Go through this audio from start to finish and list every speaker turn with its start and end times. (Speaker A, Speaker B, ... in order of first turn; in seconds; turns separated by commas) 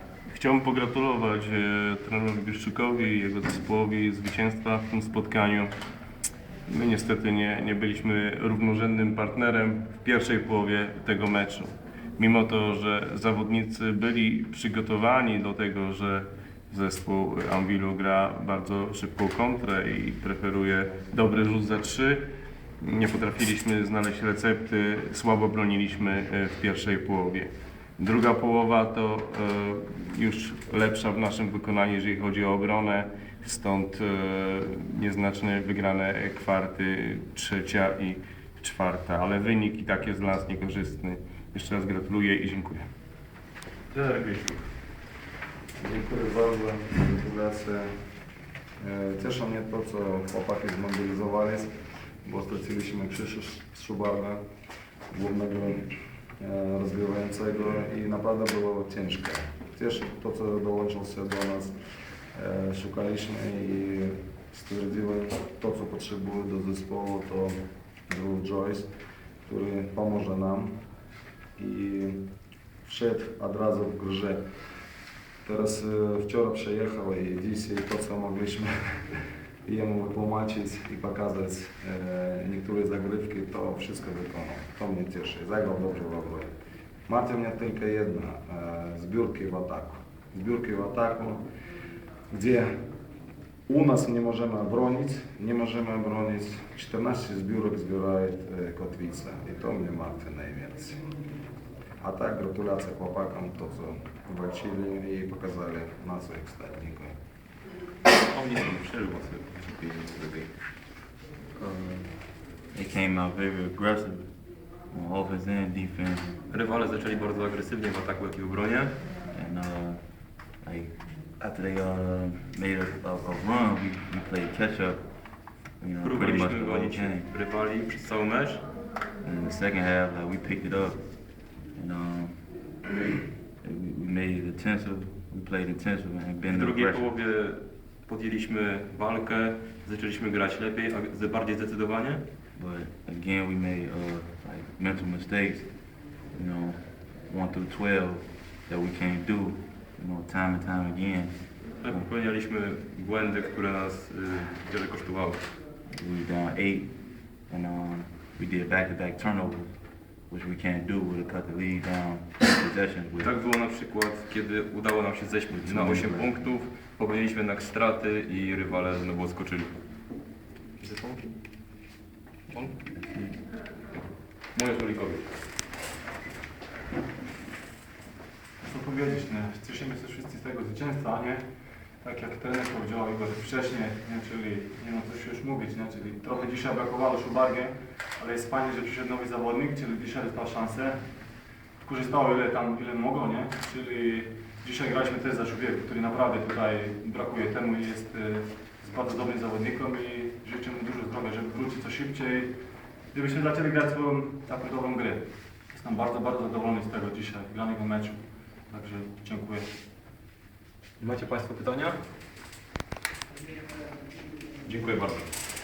Speaker A: 0.3-5.7, Speaker A: 6.7-22.2, Speaker A: 22.8-42.9, Speaker B: 43.9-44.6, Speaker C: 45.8-47.9, Speaker C: 48.8-51.7, Speaker C: 52.2-54.4, Speaker C: 55.1-61.7, Speaker C: 62.3-67.5, Speaker C: 68.1-68.9, Speaker C: 69.4-70.7, Speaker C: 71.6-72.2, Speaker C: 72.8-74.4, Speaker C: 75.4-86.5, Speaker C: 87.1-91.4, Speaker C: 92.3-92.7, Speaker C: 93.7-101.0, Speaker C: 102.0-107.1, Speaker B: 108.1-110.5, Speaker B: 111.6-112.0, Speaker D: 112.7-114.4, Speaker D: 114.9-116.3, Speaker B: 116.5-119.0, Speaker D: 119.3-127.3, Speaker B: 126.0-128.7, Speaker D: 129.2-132.7, Speaker D: 133.6-137.1, Speaker B: 136.4-142.2, Speaker D: 142.5-152.1, Speaker B: 151.8-155.5, Speaker D: 155.9-163.3, Speaker B: 163.2-169.8, Speaker D: 165.5-166.5, Speaker B: 170.8-171.3, Speaker B: 172.5-172.8, Speaker D: 172.9-173.4, Speaker B: 174.5-175.3, Speaker E: 178.6-181.5, Speaker E: 182.0-191.1, Speaker E: 191.8-202.6, Speaker E: 203.1-209.7, Speaker B: 211.0-212.0, Speaker B: 214.6-215.3